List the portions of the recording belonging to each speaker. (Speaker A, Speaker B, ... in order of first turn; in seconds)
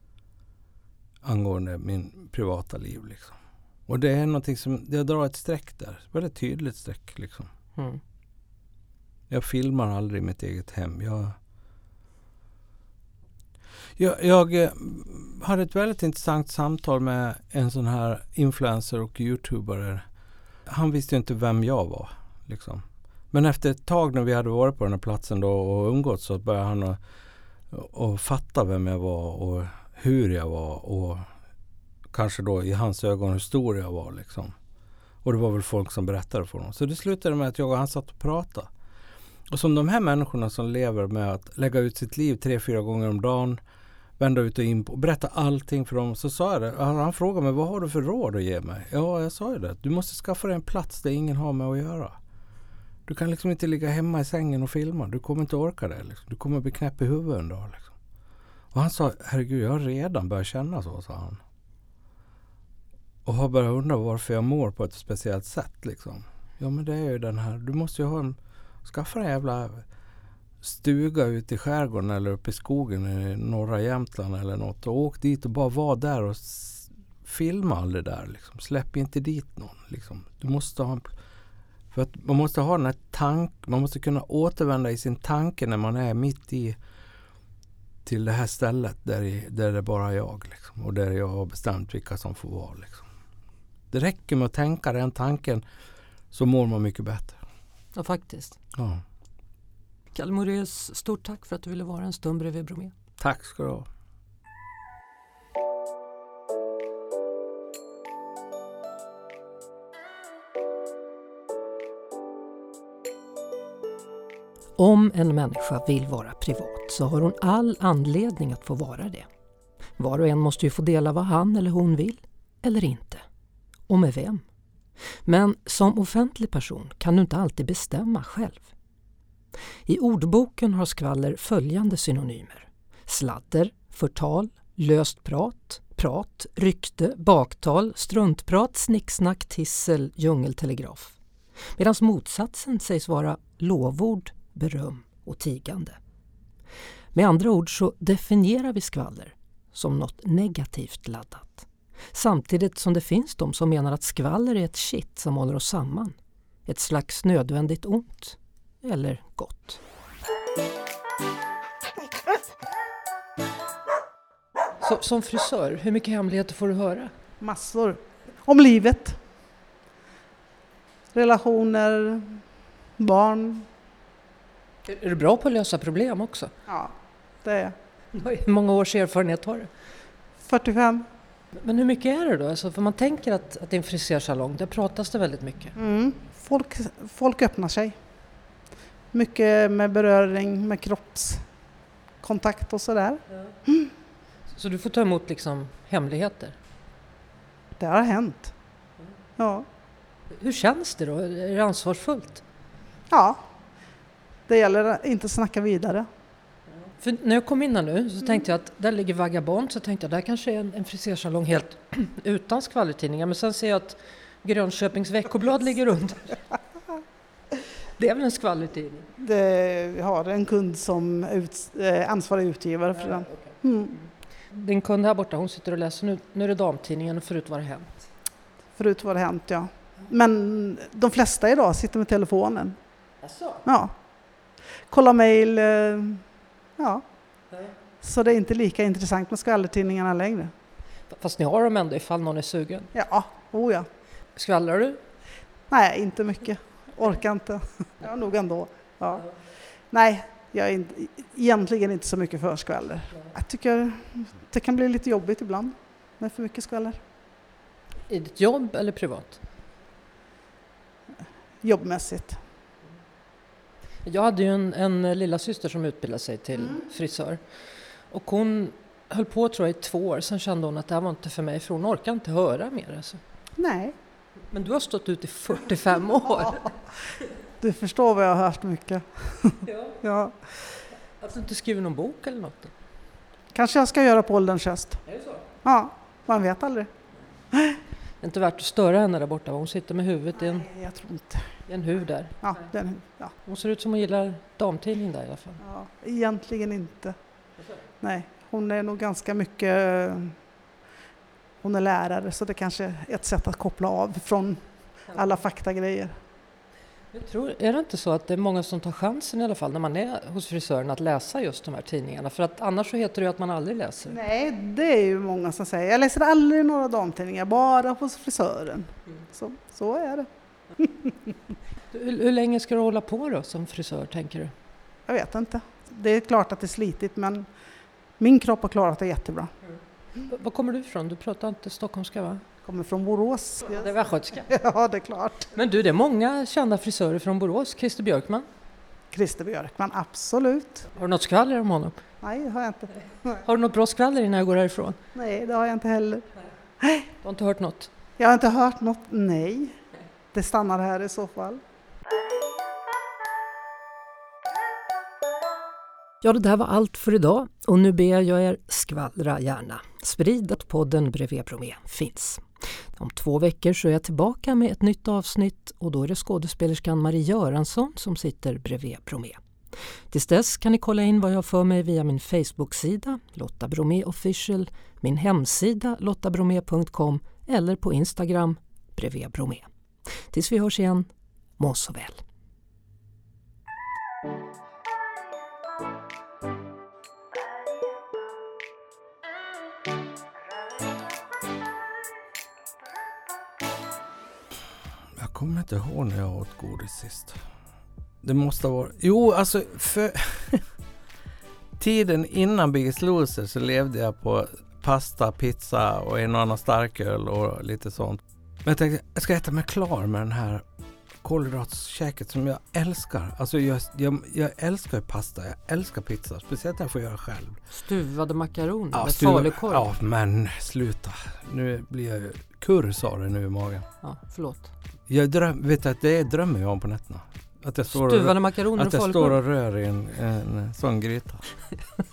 Speaker A: 1.2-7.5, 9.3-11.4, 14.0-20.1, 20.7-27.0, 27.7-31.3, 32.1-34.5, 35.2-38.7, 39.5-43.6, 44.2-52.2, 53.1-57.9, 58.7-61.4, 63.2-69.8, 70.6-81.1, 81.9-86.8, 88.0-93.1, 93.9-95.6, 96.3-97.4, 98.7-99.0, 103.2-103.9, 395.2-397.4, 398.2-400.7, 401.8-410.6, 411.2-417.6, 418.9-423.9, 425.1-431.4
Speaker B: 7.8-8.0, 98.0-98.6, 100.1-102.9, 114.8-119.3, 120.0-123.2, 123.9-124.4, 125.2-128.7, 129.9-141.2, 141.8-146.0, 147.1-159.8, 164.8-167.1, 174.9-176.5, 178.1-179.7, 181.5-185.8, 194.5-196.6, 200.3-202.4, 207.0-216.4, 218.0-219.1, 223.0-223.5, 224.5-227.9, 233.3-233.6, 241.1-242.9, 244.3-245.0, 258.1-259.4, 264.1-273.2, 274.5-276.8, 279.7-280.0, 281.2-282.7, 285.1-285.4, 288.2-290.7, 291.7-292.7, 293.4-295.6, 307.1-314.2, 321.9-324.5, 330.2-332.4, 333.7-334.5, 335.5-338.5, 341.0-342.0, 343.4-345.0, 347.2-347.9, 356.2-369.4, 370.1-379.7, 380.3-382.2, 417.7-419.9, 424.0-424.7, 427.9-429.4
Speaker C: 167.4-169.2, 171.1-172.4, 173.0-173.7, 176.7-177.8, 180.4-181.1, 185.8-188.0, 189.1-191.5, 192.2-193.9, 197.8-198.5, 199.4-199.7, 203.1-203.4, 204.5-206.1, 219.2-224.0, 228.8-232.8, 233.6-233.9, 234.9-236.2, 236.8-237.0, 238.0-240.5, 242.9-243.9, 245.7-257.0, 261.6-262.4, 273.6-273.9, 277.6-280.5, 283.5-285.0, 285.6-286.9, 287.5-287.8, 290.5-291.6, 292.4-293.3, 295.6-297.1, 298.0-300.4, 301.6-306.2, 314.1-321.1, 325.1-327.5, 328.2-329.5, 332.6-333.9, 334.5-335.5, 339.1-340.9, 342.2-343.4, 345.1-346.3, 346.8-347.1, 348.2-349.8, 350.3-351.6